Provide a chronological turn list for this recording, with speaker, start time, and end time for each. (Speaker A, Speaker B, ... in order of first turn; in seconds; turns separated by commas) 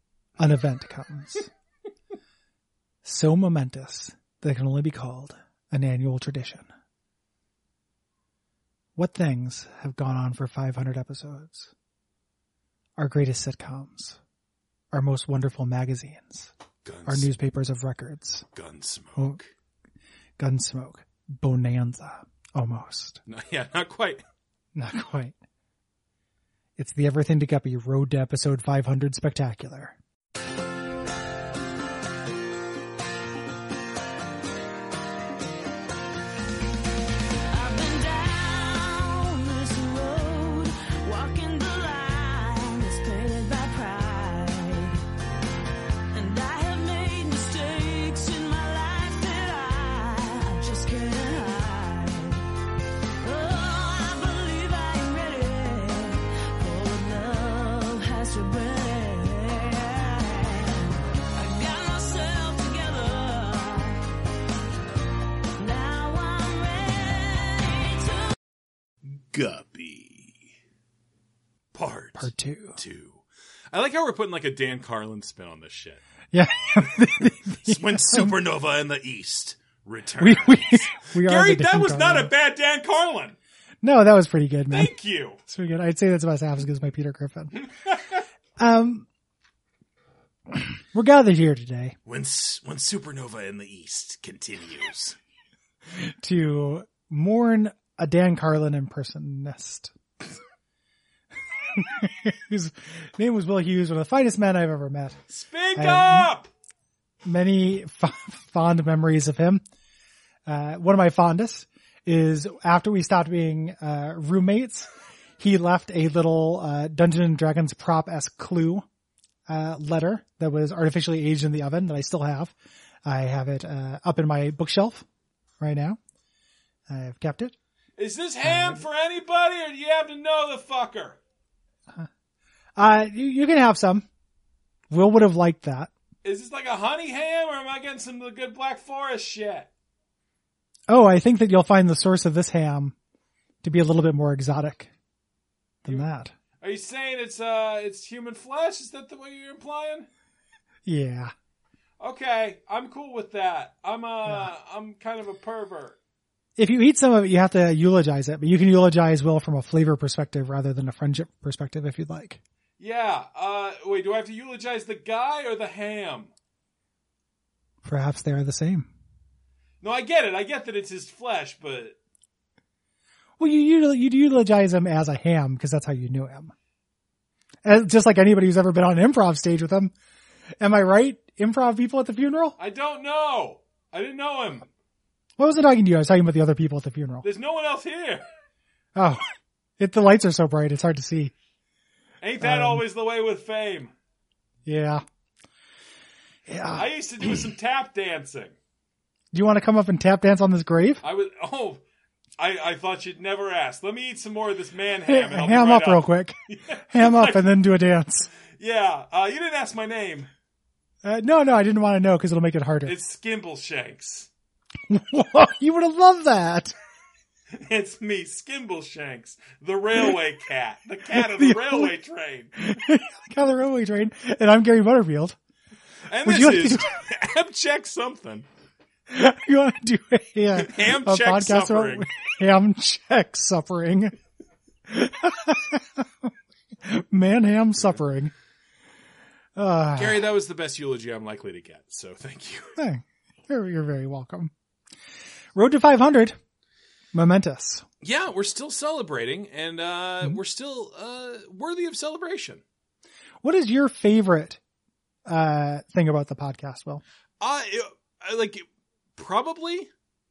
Speaker A: 0.4-1.5, Speaker A: 3.0-6.7, Speaker A: 9.0-11.7, Speaker A: 13.0-14.2, Speaker A: 14.9-16.5, Speaker B: 16.8-17.3, Speaker A: 17.1-18.5, Speaker B: 18.5-19.4, Speaker A: 20.4-23.2, Speaker B: 23.2-24.2, Speaker A: 24.8-25.4, Speaker A: 26.8-30.0, Speaker C: 37.5-45.0, Speaker C: 46.1-52.5, Speaker C: 53.2-64.1, Speaker C: 65.6-68.3, Speaker B: 69.3-70.4, Speaker B: 71.7-76.0, Speaker A: 72.1-72.8, Speaker A: 76.3-78.3, Speaker B: 77.6-83.3, Speaker A: 80.2-82.3, Speaker A: 83.8-84.9, Speaker B: 84.7-85.4, Speaker A: 85.5-87.7, Speaker B: 87.9-88.2, Speaker A: 88.6-89.1, Speaker A: 90.5-92.0, Speaker B: 92.1-95.2, Speaker A: 95.9-99.9, Speaker A: 101.7-105.2, Speaker B: 105.3-106.5, Speaker A: 105.8-106.3, Speaker A: 107.2-109.6, Speaker A: 110.5-118.8, Speaker A: 119.5-125.0, Speaker A: 125.6-126.0, Speaker A: 126.9-127.5, Speaker B: 128.0-131.2, Speaker A: 128.4-128.8, Speaker A: 132.8-134.0, Speaker A: 134.9-135.9, Speaker B: 136.2-139.7, Speaker A: 140.9-142.9, Speaker A: 143.6-144.9, Speaker A: 145.8-146.3, Speaker B: 146.6-150.1, Speaker A: 150.8-151.3, Speaker B: 152.0-155.9, Speaker A: 154.2-154.5, Speaker A: 156.6-162.4, Speaker B: 162.8-166.3, Speaker A: 167.8-168.9, Speaker B: 169.8-171.9, Speaker A: 173.4-176.5, Speaker A: 177.6-179.9, Speaker A: 180.6-182.6, Speaker B: 182.6-184.7, Speaker A: 185.4-187.3, Speaker B: 187.2-188.2, Speaker A: 188.9-189.2, Speaker A: 189.8-191.3, Speaker B: 192.2-193.9, Speaker A: 192.4-192.8, Speaker A: 194.7-195.0, Speaker A: 196.5-197.5, Speaker B: 196.7-198.5, Speaker A: 199.3-201.0, Speaker B: 201.0-201.8, Speaker B: 202.4-207.5, Speaker A: 205.0-206.4, Speaker A: 206.9-208.3, Speaker B: 208.5-210.3, Speaker A: 211.0-212.9, Speaker B: 212.8-214.3, Speaker A: 214.9-216.7, Speaker B: 217.5-222.5, Speaker A: 221.1-221.9, Speaker A: 222.6-225.4, Speaker B: 226.1-228.4, Speaker A: 226.2-226.9, Speaker A: 229.1-234.1, Speaker B: 230.5-232.1, Speaker A: 234.9-236.3, Speaker A: 236.8-238.3, Speaker A: 239.6-240.3, Speaker B: 239.9-242.8, Speaker A: 242.8-244.5, Speaker A: 245.5-246.3, Speaker A: 247.1-247.8, Speaker B: 248.0-252.6, Speaker A: 253.4-254.6, Speaker A: 255.2-257.0, Speaker B: 257.4-258.6, Speaker B: 259.1-259.9